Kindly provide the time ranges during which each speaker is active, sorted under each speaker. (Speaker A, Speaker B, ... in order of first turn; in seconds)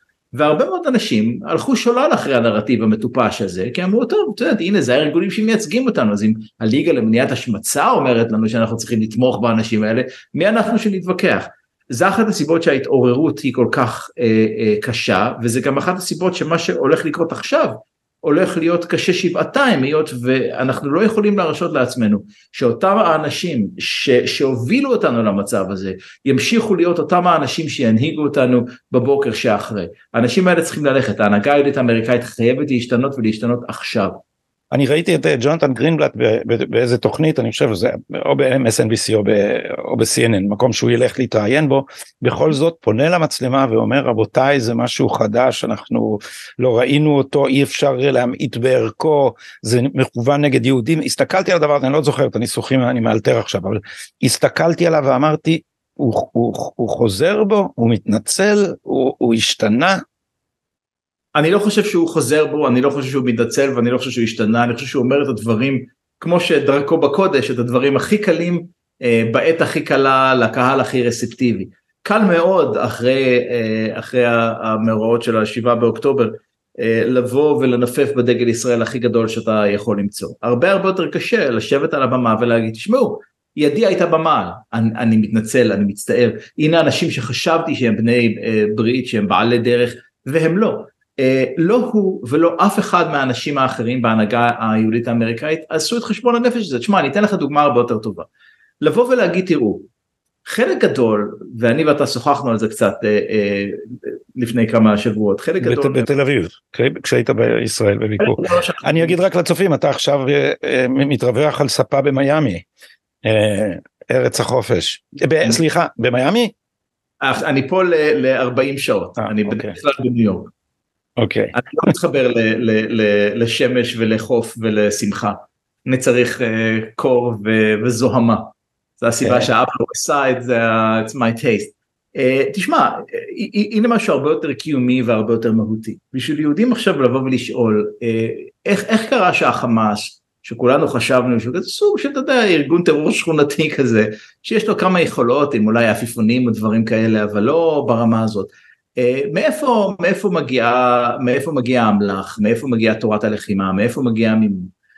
Speaker A: 0.3-34.2, 61.4-98.3, 98.8-99.8, 100.5-106.1, 108.2-109.2, 117.2-120.5, 121.5-154.7
Speaker B: 34.7-60.0, 105.6-112.7, 113.2-116.5, 119.2-119.8, 121.2-121.5